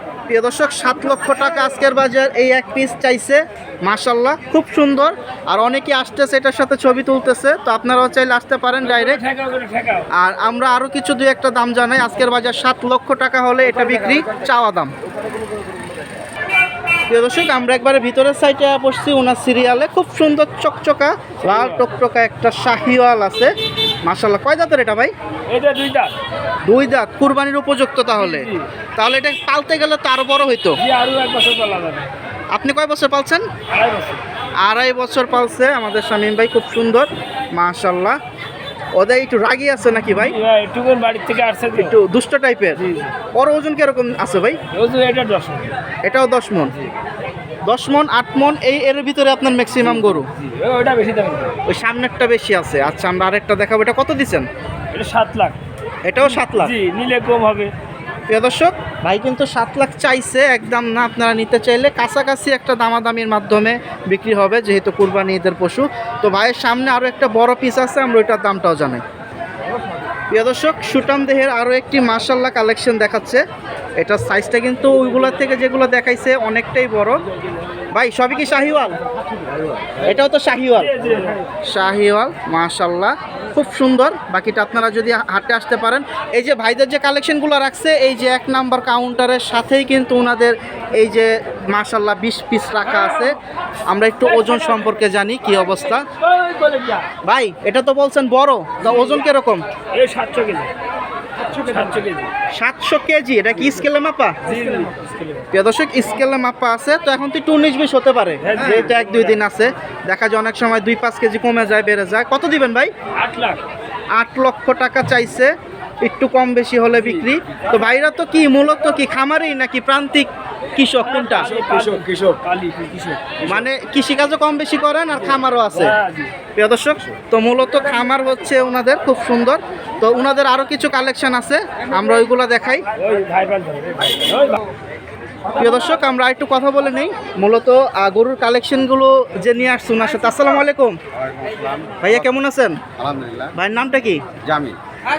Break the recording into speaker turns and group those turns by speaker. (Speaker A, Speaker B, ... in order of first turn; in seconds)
Speaker A: 0.3-9.2, 10.1-14.9, 17.1-23.5, 24.1-25.1, 26.7-30.8, 32.5-33.5, 34.6-38.2, 39.0-40.4, 41.8-42.8, 43.4-44.6, 46.0-46.8, 47.7-50.3, 51.7-54.5, 56.1-56.8, 58.3-69.0, 70.3-73.4, 74.0-77.2, 77.9-79.0, 80.0-81.0, 81.7-93.4, 93.9-96.1, 97.2-99.7, 102.5-104.4, 105.5-112.9, 114.2-121.6, 123.4-126.0, 126.6-132.9, 135.6-141.0, 142.0-142.8, 143.6-144.2
Speaker B: 8.8-10.1, 21.5-21.8, 25.5-26.2, 28.1-28.7, 30.8-32.2, 33.7-34.2, 40.2-42.0, 42.8-43.1, 44.7-45.8, 50.4-51.6, 54.9-55.6, 56.5-57.7, 80.8-81.4, 94.4-94.8, 96.1-97.1, 99.9-100.7, 101.6-102.3, 104.4-105.5, 108.4-109.4, 113.2-113.6, 121.0-123.6, 125.7-126.3, 133.0-134.6
Speaker C: 121.6-122.4, 141.2-142.1, 143.0-143.5, 144.4-144.8